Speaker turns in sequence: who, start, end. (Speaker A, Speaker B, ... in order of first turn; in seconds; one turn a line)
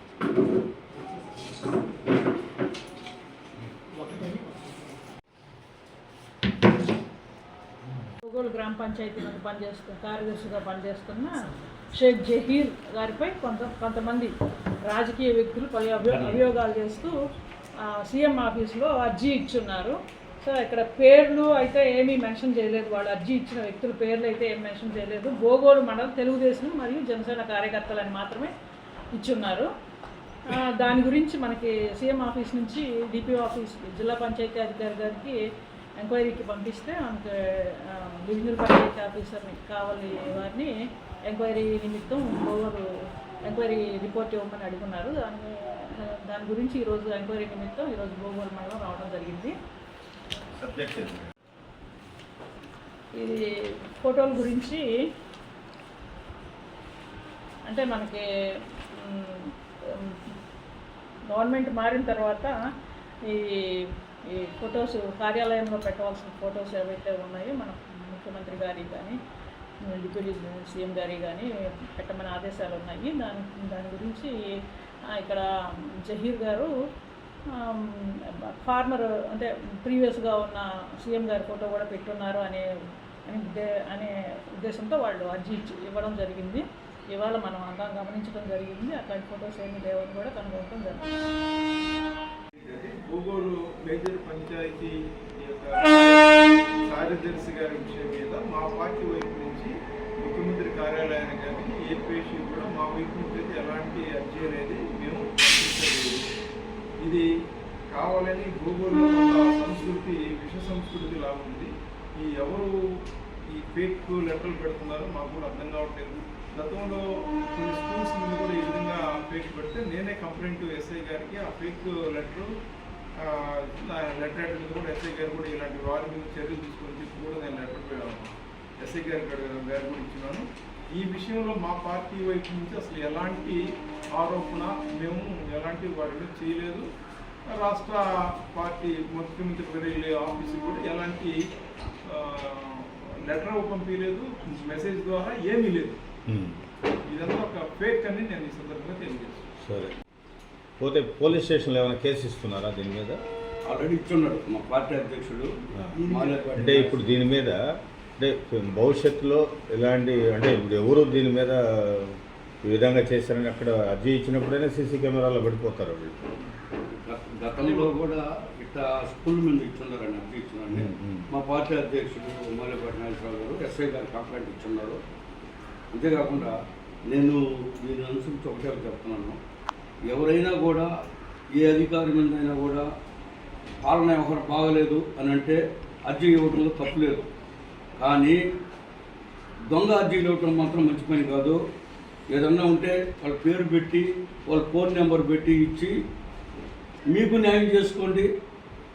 Speaker A: 0.9-1.8
Speaker A: 3.9-5.0
Speaker B: 8.3-11.4
Speaker B: 11.9-14.3
Speaker B: 14.9-17.1
Speaker C: 16.1-16.5
Speaker B: 17.9-28.5
Speaker B: 29.1-29.7
Speaker B: 30.5-35.4
Speaker B: 36.0-37.3
Speaker B: 37.8-40.7
Speaker B: 41.3-42.8
Speaker B: 43.5-49.5
Speaker D: 50.5-51.3
Speaker B: 53.2-53.5
Speaker B: 54.0-54.8
Speaker B: 57.7-58.2
Speaker B: 58.9-60.3
Speaker B: 61.3-62.5
Speaker B: 63.3-69.2
Speaker B: 69.9-74.3
Speaker B: 75.2-75.4
Speaker B: 76.1-76.7
Speaker B: 77.6-82.6
Speaker B: 83.3-84.1
Speaker B: 84.6-86.6
Speaker B: 87.1-91.1
Speaker E: 92.5-106.2
Speaker E: 107.9-112.8
Speaker E: 113.5-122.5
Speaker E: 123.2-133.6
Speaker E: 134.1-136.9
Speaker E: 137.5-141.4
Speaker E: 142.1-146.0
Speaker D: 146.3-146.6
Speaker E: 147.1-149.5
Speaker D: 149.6-149.9
Speaker D: 150.8-153.2
Speaker C: 153.7-157.2
Speaker E: 156.1-156.5
Speaker D: 156.6-157.6
Speaker D: 158.2-166.1
Speaker C: 166.9-175.0
Speaker E: 167.6-167.9
Speaker D: 170.7-171.2
Speaker C: 175.9-176.6
Speaker C: 177.1-179.4
Speaker C: 180.1-180.9
Speaker C: 181.6-182.9
Speaker C: 183.8-187.2
Speaker C: 188.0-188.4
Speaker C: 189.7-191.6
Speaker C: 192.3-195.9
Speaker C: 197.1-198.3